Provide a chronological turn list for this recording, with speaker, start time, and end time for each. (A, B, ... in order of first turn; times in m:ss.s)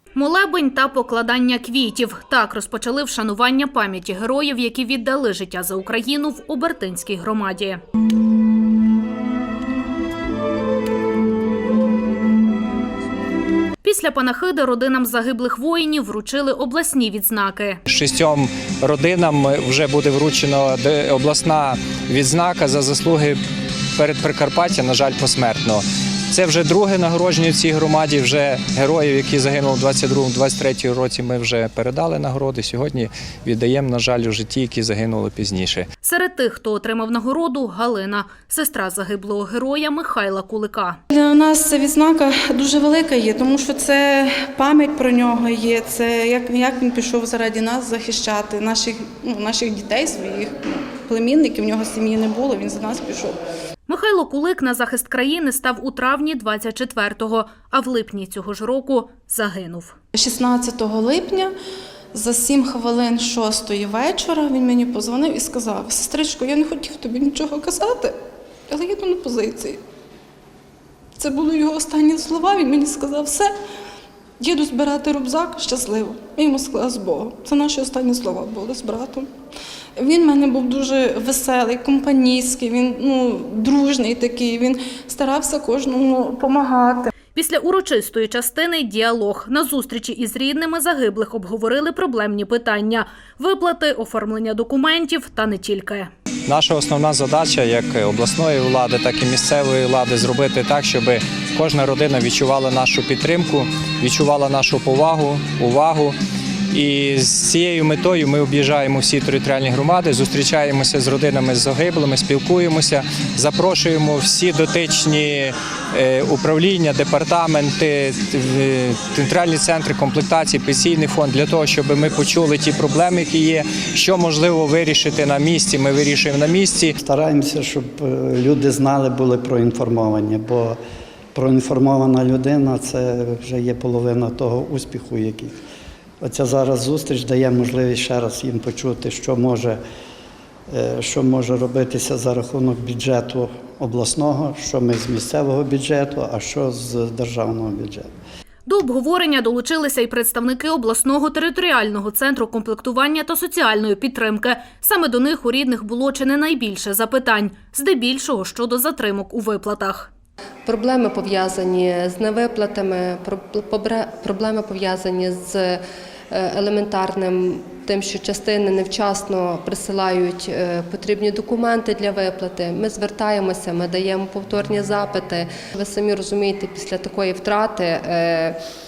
0:00.2-0:07.8 A
0:13.8-0:17.8 A
0:17.9-0:23.4 B
0:24.0-0:35.9 B
0:36.0-0:41.0 A
0:41.1-0:53.4 C
0:53.9-1:00.0 A
1:00.2-1:01.5 C
1:02.1-1:08.2 C
1:08.7-1:09.8 C
1:11.2-1:13.5 C
1:14.4-1:19.3 C
1:20.0-1:27.1 C
1:27.3-1:36.1 A
1:36.5-1:46.2 B
1:46.7-2:06.9 B
2:07.0-2:10.8 D
2:11.4-2:15.6 D
2:16.2-2:19.8 D
2:20.7-2:28.1 D
2:28.7-2:40.1 A
2:40.7-2:58.6 E